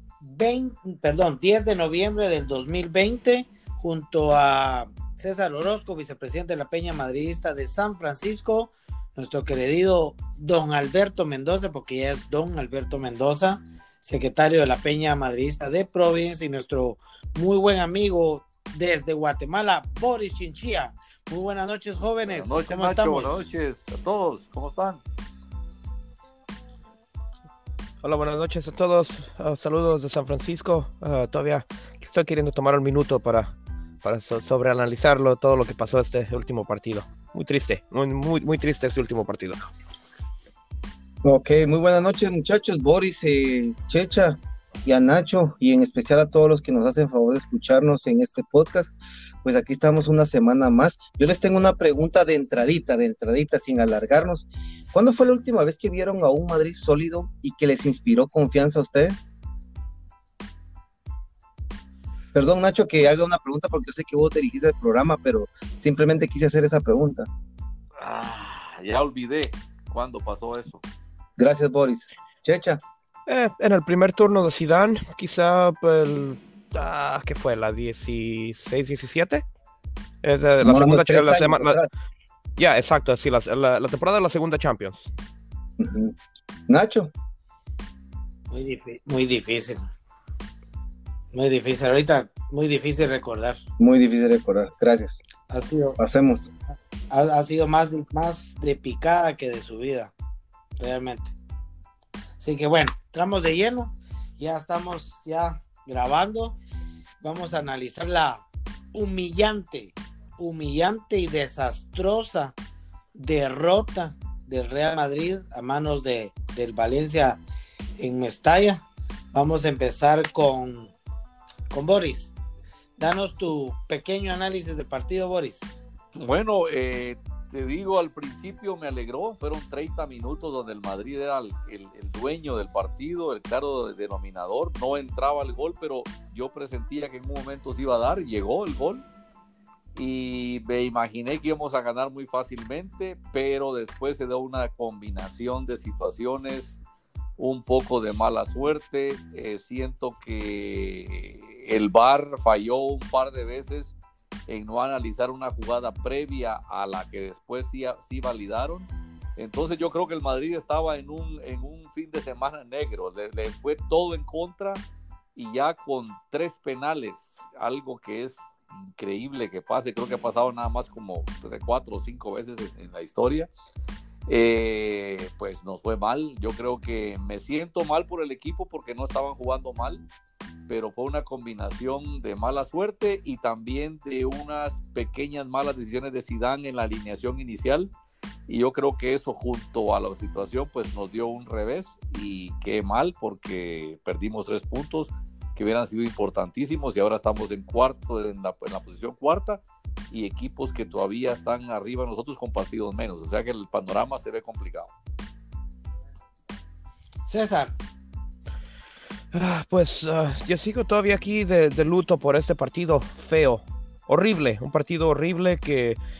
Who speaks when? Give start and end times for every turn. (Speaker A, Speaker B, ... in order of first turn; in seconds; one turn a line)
Speaker A: 0.2-23.4
Speaker B: 22.3-25.0
Speaker C: 28.0-33.5
Speaker C: 34.0-39.6
Speaker D: 41.2-59.3
Speaker D: 62.4-67.3
Speaker B: 68.0-70.8
Speaker D: 71.4-72.8
Speaker C: 73.3-79.5
Speaker C: 80.2-81.8
Speaker D: 80.5-81.9
Speaker C: 82.6-85.1
Speaker D: 85.8-86.2
Speaker D: 86.7-87.1
Speaker A: 88.5-89.9
Speaker A: 91.3-93.6
Speaker D: 93.8-95.2
Speaker A: 95.5-96.0
Speaker D: 96.0-96.5
Speaker A: 97.1-100.1
Speaker A: 100.8-101.3
Speaker A: 102.4-106.6
Speaker A: 107.2-112.5
Speaker A: 113.2-117.4
Speaker A: 118.0-120.9
Speaker A: 121.7-122.3
Speaker A: 123.0-125.8
Speaker B: 126.2-139.1
Speaker B: 140.0-146.7
Speaker B: 147.4-153.9
Speaker B: 154.5-164.8
Speaker B: 165.4-173.5
Speaker B: 174.3-180.1
Speaker B: 180.7-187.9
Speaker B: 188.5-204.9
Speaker A: 207.3-207.8
Speaker C: 209.3-216.0